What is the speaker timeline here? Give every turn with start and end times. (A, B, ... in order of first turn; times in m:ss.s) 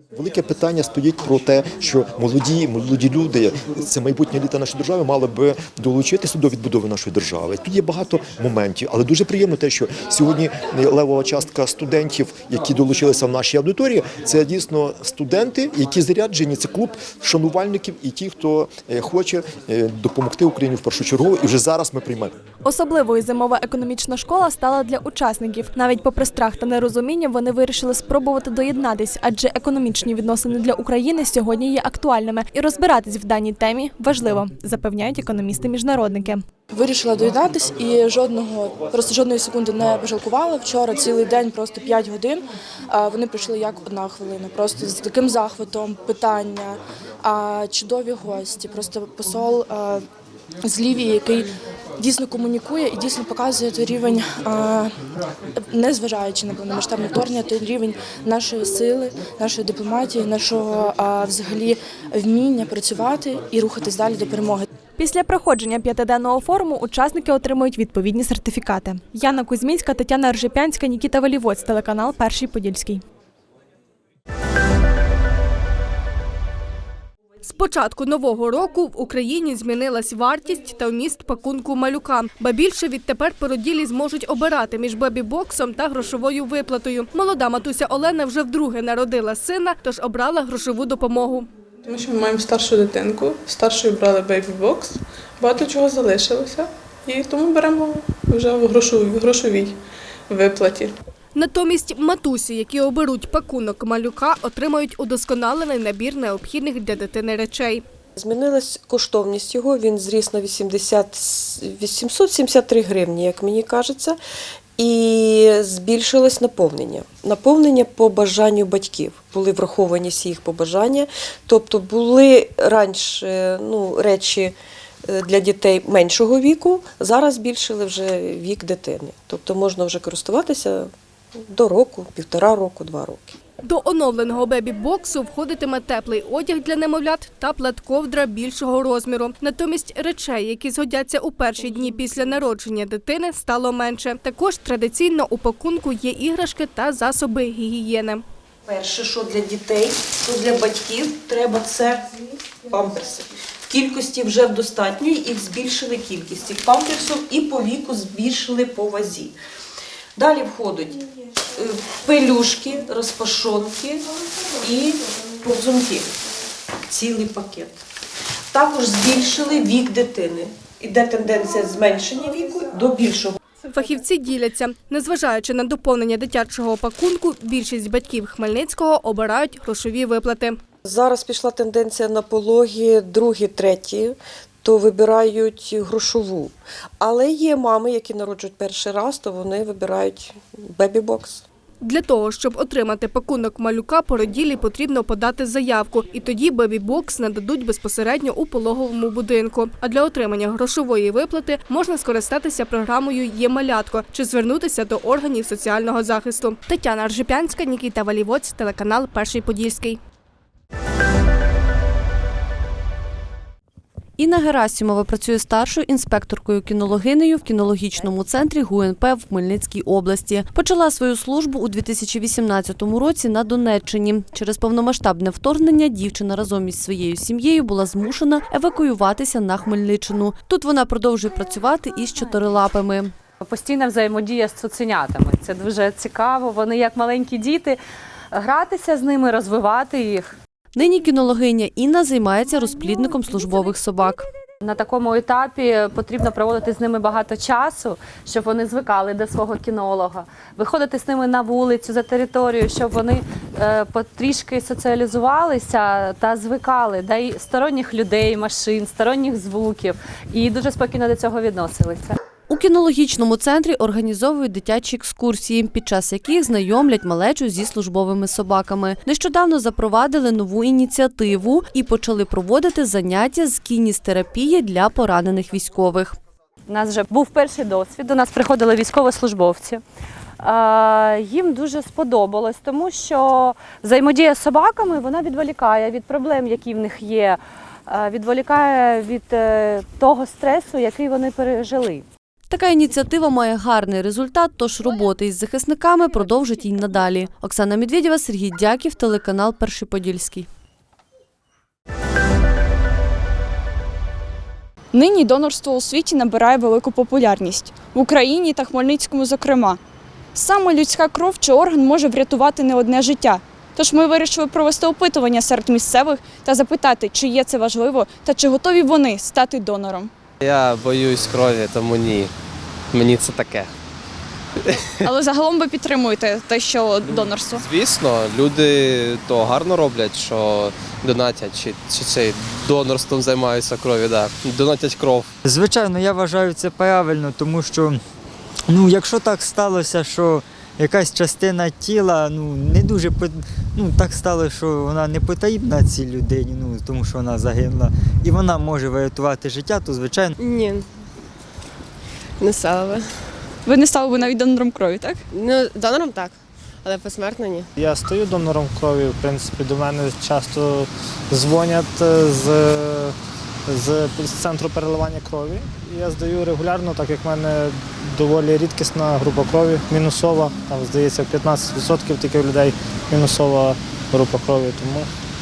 0:00.1-0:22.3 A
0:22.6-0:36.4 B
0:36.7-0:50.0 C
0:50.6-0:54.9 C
0:55.6-1:04.7 C
1:05.0-1:13.0 B
1:17.4-1:31.5 D
1:31.9-1:41.0 E
1:41.4-1:47.8 D
1:48.2-1:54.2 F
1:54.8-2:04.6 F
2:05.1-2:10.9 F
2:11.5-2:13.4 F
2:13.6-2:28.2 D
2:28.7-2:32.0 F
2:32.7-2:39.3 F
2:40.2-2:41.0 F
2:41.6-2:44.0 F
2:44.6-2:46.1 F
2:46.9-2:47.7 F
2:48.5-2:53.4 F
2:53.7-3:00.6 D
3:00.8-3:11.4 F
3:11.8-3:30.0 D
3:34.2-3:53.1 G
3:53.4-3:57.8 H
3:58.3-4:00.3 H
4:00.8-4:04.3 G
4:04.6-4:22.2 H
4:22.5-4:36.2 G
4:36.7-4:39.8 H
4:40.4-4:52.1 H
4:52.5-5:00.5 G
5:04.9-5:09.8 I
5:10.4-5:20.1 I
5:20.4-5:22.3 J
5:22.9-5:23.7 J
5:25.1-5:27.6 I
5:27.1-5:35.3 J
5:35.5-5:38.0 C
5:38.7-5:50.2 C
5:50.4-5:50.9 K
5:52.4-5:53.4 K
5:53.6-5:55.2 I
5:55.3-5:57.7 K
5:57.8-6:03.2 L
6:03.7-6:15.1 L